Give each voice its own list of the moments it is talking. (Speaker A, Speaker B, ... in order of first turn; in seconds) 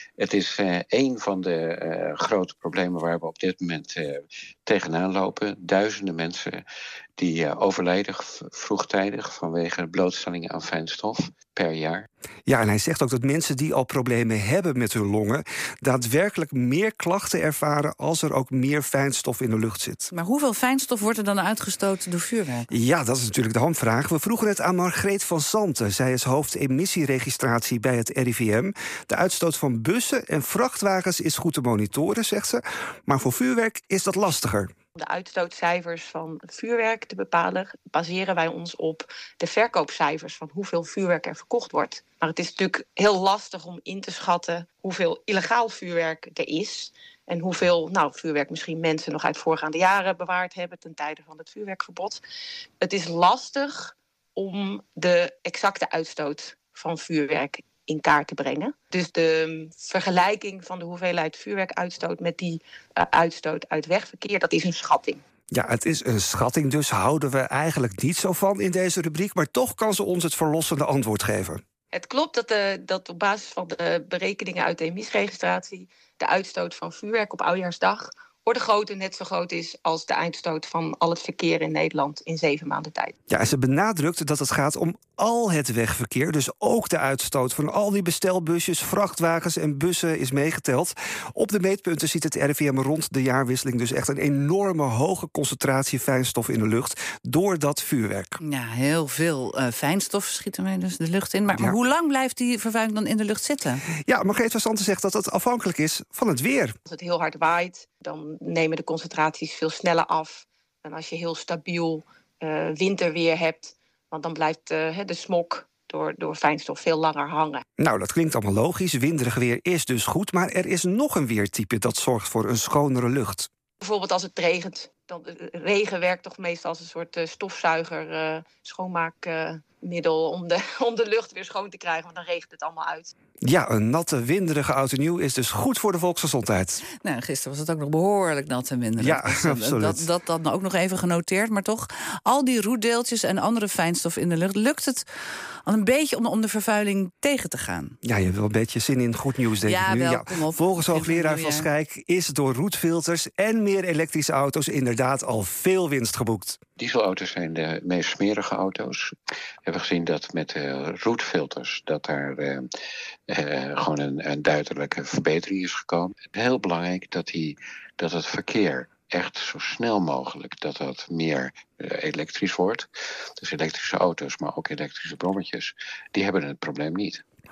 Speaker A: 0.2-6.6, 7.2-12.1, 156.8-159.1, 159.7-162.7, 163.3-172.9, 173.4-177.2
Speaker B: 12.5-20.1, 22.7-34.7, 65.5-71.6, 83.3-98.4, 101.5-101.8, 104.1-106.8, 117.8-123.5, 133.4-136.8, 139.0-140.1, 148.0-156.6
Speaker C: 20.1-22.7, 98.4-103.8, 137.0-145.1, 145.7-148.0, 149.6-151.7
Speaker D: 35.0-52.2, 52.8-65.2, 71.9-83.2, 106.9-117.6, 123.8-133.1